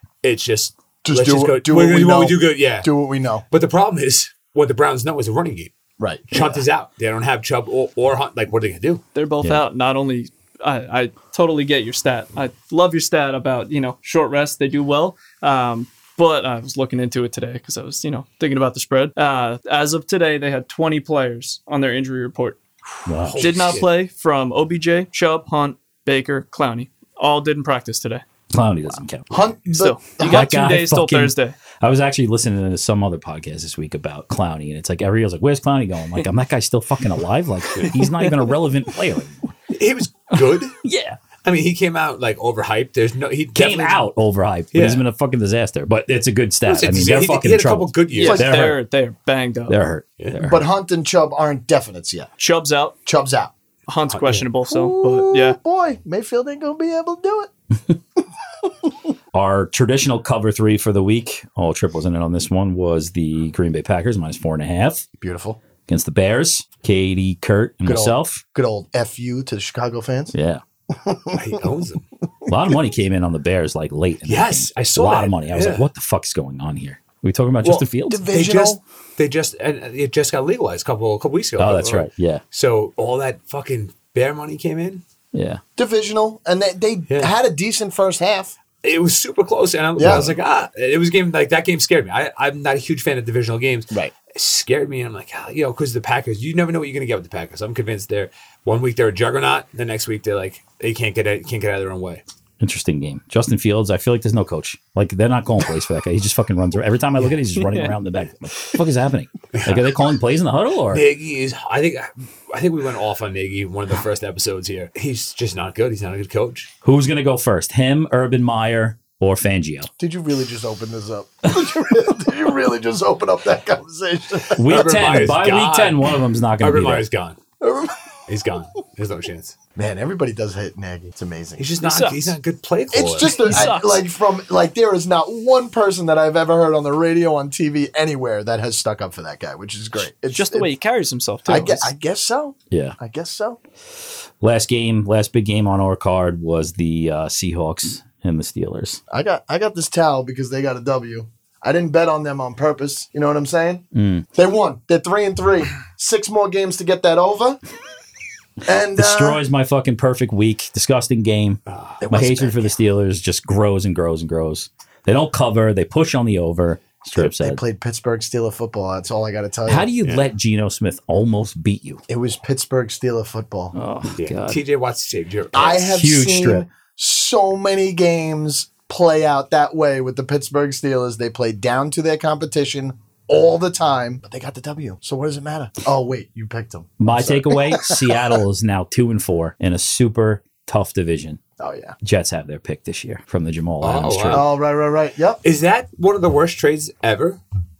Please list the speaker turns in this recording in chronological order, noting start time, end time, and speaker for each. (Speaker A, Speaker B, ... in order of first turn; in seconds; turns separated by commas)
Speaker A: 0.2-2.9, Speaker B: 1.1-3.4, Speaker A: 3.5-5.7, Speaker B: 6.0-6.6, Speaker A: 6.3-9.0, Speaker C: 9.2-22.6, Speaker D: 23.1-23.8, Speaker A: 23.2-23.9, Speaker C: 23.4-28.2, Speaker D: 28.5-29.4, Speaker B: 29.3-30.5, Speaker C: 29.7-31.6, Speaker D: 30.2-39.5, Speaker A: 39.7-40.8, Speaker D: 40.3-41.2, Speaker A: 41.5-44.1, Speaker D: 43.5-48.8, Speaker A: 44.7-45.0, Speaker A: 46.7-48.5, Speaker C: 48.1-49.8, Speaker B: 48.2-48.6, Speaker D: 49.7-50.7, Speaker A: 50.2-50.5, Speaker B: 50.4-52.3, Speaker C: 52.4-53.0, Speaker B: 53.0-53.5, Speaker C: 53.9-55.6, Speaker A: 54.1-54.5, Speaker B: 54.7-57.5, Speaker D: 59.3-65.1, Speaker B: 65.2-65.6, Speaker D: 65.9-68.4, Speaker B: 67.9-70.3, Speaker D: 70.3-70.6, Speaker B: 70.9-71.5, Speaker A: 71.3-72.0, Speaker D: 72.5-78.3, Speaker A: 74.3-75.9, Speaker A: 77.6-85.0, Speaker B: 78.1-78.8, Speaker D: 81.6-82.4, Speaker D: 85.3-85.6, Speaker B: 85.8-88.5, Speaker A: 88.8-102.2, Speaker B: 90.0-90.3, Speaker D: 90.0-90.3, Speaker D: 102.6-111.0, Speaker C: 107.6-107.9, Speaker A: 109.5-109.8, Speaker A: 110.9-116.7, Speaker D: 116.8-119.9, Speaker B: 120.0-125.1, Speaker D: 124.6-127.1, Speaker A: 124.7-126.1, Speaker A: 126.6-127.4, Speaker B: 127.6-128.0, Speaker A: 128.3-129.6, Speaker B: 129.8-131.7, Speaker A: 131.6-133.4, Speaker C: 131.8-132.4, Speaker B: 132.9-140.7, Speaker C: 133.2-134.0, Speaker C: 140.3-141.9, Speaker B: 141.5-143.6, Speaker D: 142.7-143.0, Speaker D: 144.4-149.0, Speaker B: 149.1-157.6, Speaker D: 153.9-154.3, Speaker B: 158.7-159.4, Speaker D: 158.9-161.6, Speaker A: 161.7-162.0, Speaker B: 162.0-162.8, Speaker D: 162.1-167.6, Speaker B: 167.2-169.9, Speaker D: 169.7-172.0, Speaker A: 170.0-170.3, Speaker B: 172.1-173.8, Speaker D: 173.8-174.6, Speaker A: 174.2-175.9, Speaker B: 175.5-188.4, Speaker D: 175.8-176.7, Speaker D: 187.0-191.4, Speaker B: 191.6-192.0, Speaker D: 192.0-194.5, Speaker A: 193.8-194.5, Speaker B: 194.3-195.4, Speaker A: 195.4-197.4